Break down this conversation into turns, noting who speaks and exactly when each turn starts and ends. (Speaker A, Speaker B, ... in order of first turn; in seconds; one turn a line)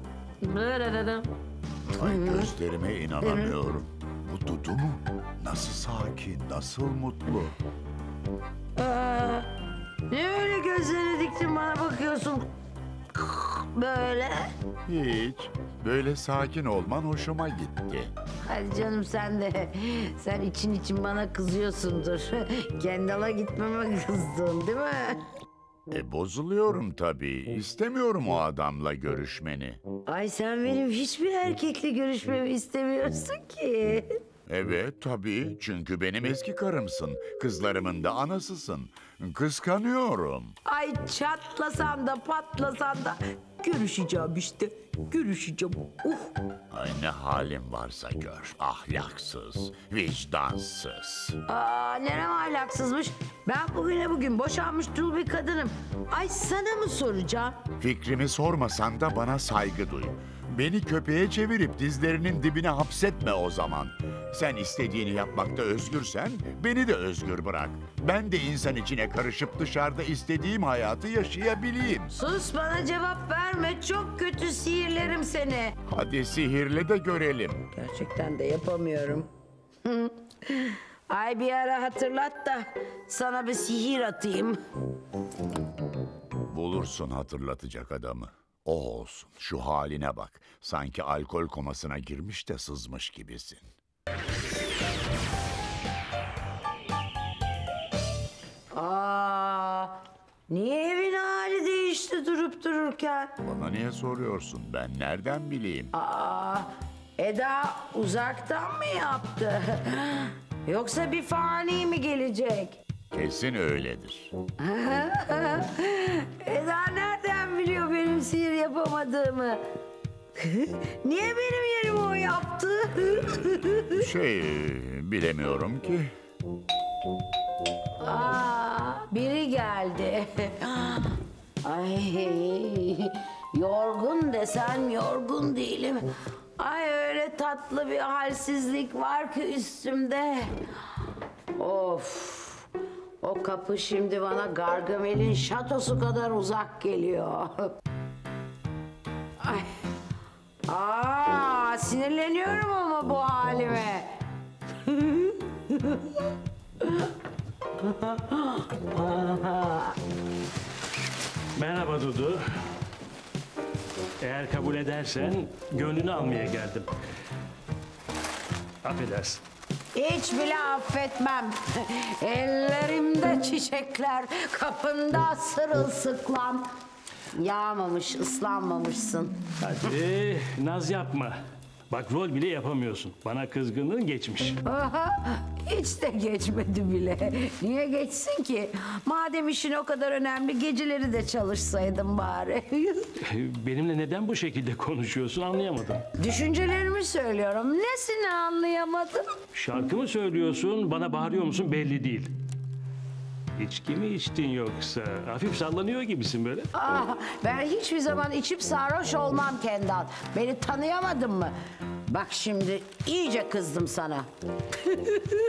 Speaker A: 0.4-1.3
Speaker A: 1.9-2.5
Speaker B: 1.9-7.5
Speaker A: 3.2-3.5
Speaker A: 8.8-9.5
Speaker A: 10.1-12.4
Speaker A: 13.1-14.4
Speaker B: 14.9-18.1
Speaker A: 18.4-25.2
Speaker B: 25.9-29.8
Speaker A: 30.1-34.1
Speaker B: 34.5-40.5
Speaker A: 40.6-46.3
Speaker B: 46.7-51.4
Speaker A: 51.5-57.6
Speaker B: 57.8-72.1
Speaker A: 72.1-75.7
Speaker B: 75.9-77.7
Speaker A: 77.7-79.3
Speaker A: 79.8-84.6
Speaker B: 86.5-93.7
Speaker A: 98.7-99.9
Speaker A: 100.5-103.3
Speaker B: 103.4-105.9
Speaker A: 105.9-112.8
Speaker B: 113.1-114.3
Speaker A: 114.6-119.6
Speaker A: 120.4-124.1
Speaker B: 123.9-126.1
Speaker A: 128.0-136.0
Speaker A: 136.6-140.5
Speaker A: 141.6-142.7
Speaker A: 143.2-147.7
Speaker A: 149.4-149.7
Speaker A: 150.7-154.1
Speaker A: 154.8-156.2
Speaker A: 157.8-160.0
Speaker C: 161.5-162.4
Speaker C: 164.2-166.9
Speaker C: 168.8-169.4
Speaker A: 169.9-176.7
Speaker A: 177.3-179.4
Speaker C: 179.6-181.4
Speaker C: 181.9-184.6
Speaker A: 184.6-193.0
Speaker C: 193.2-196.0
Speaker A: 196.2-199.2
Speaker C: 199.5-202.3
Speaker C: 203.6-206.7
Speaker A: 206.7-211.5
Speaker A: 212.1-214.3